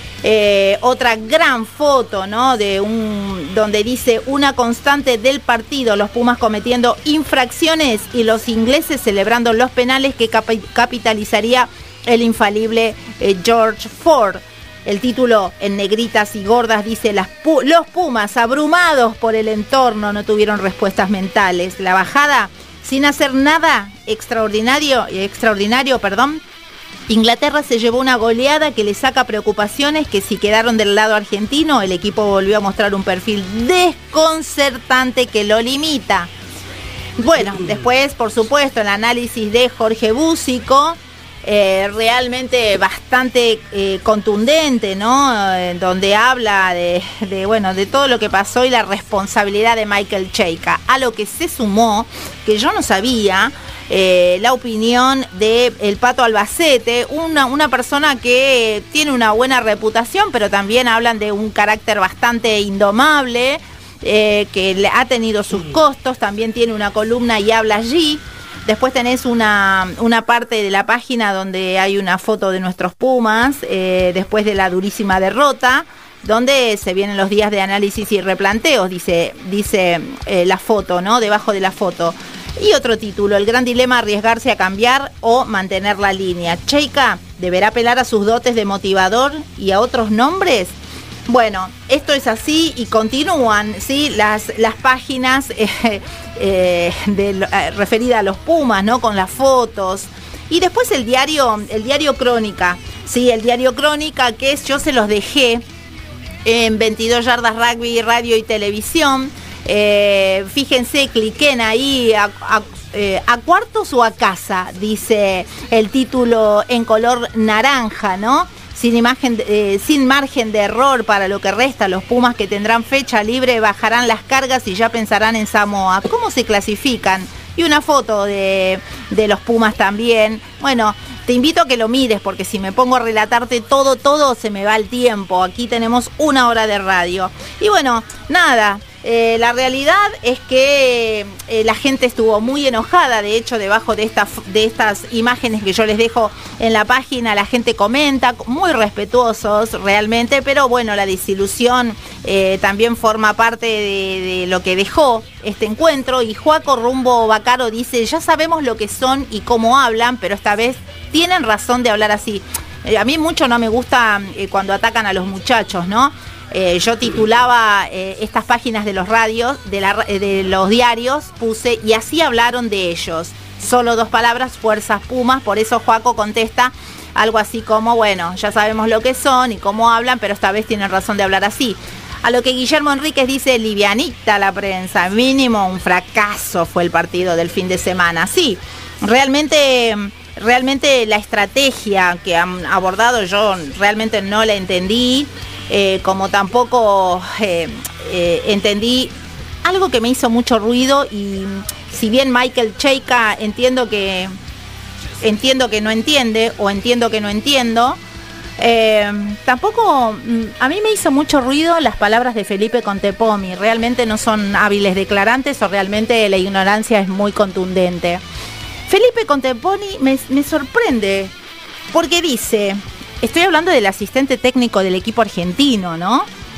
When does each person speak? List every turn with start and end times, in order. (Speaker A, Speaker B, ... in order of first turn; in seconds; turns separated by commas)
Speaker A: 0.2-26.4, Speaker A: 27.1-36.3, Speaker A: 37.2-90.8, Speaker A: 91.3-105.6, Speaker A: 106.5-204.3, Speaker A: 205.2-208.0, Speaker A: 208.6-218.2, Speaker A: 218.9-221.3, Speaker A: 221.9-226.3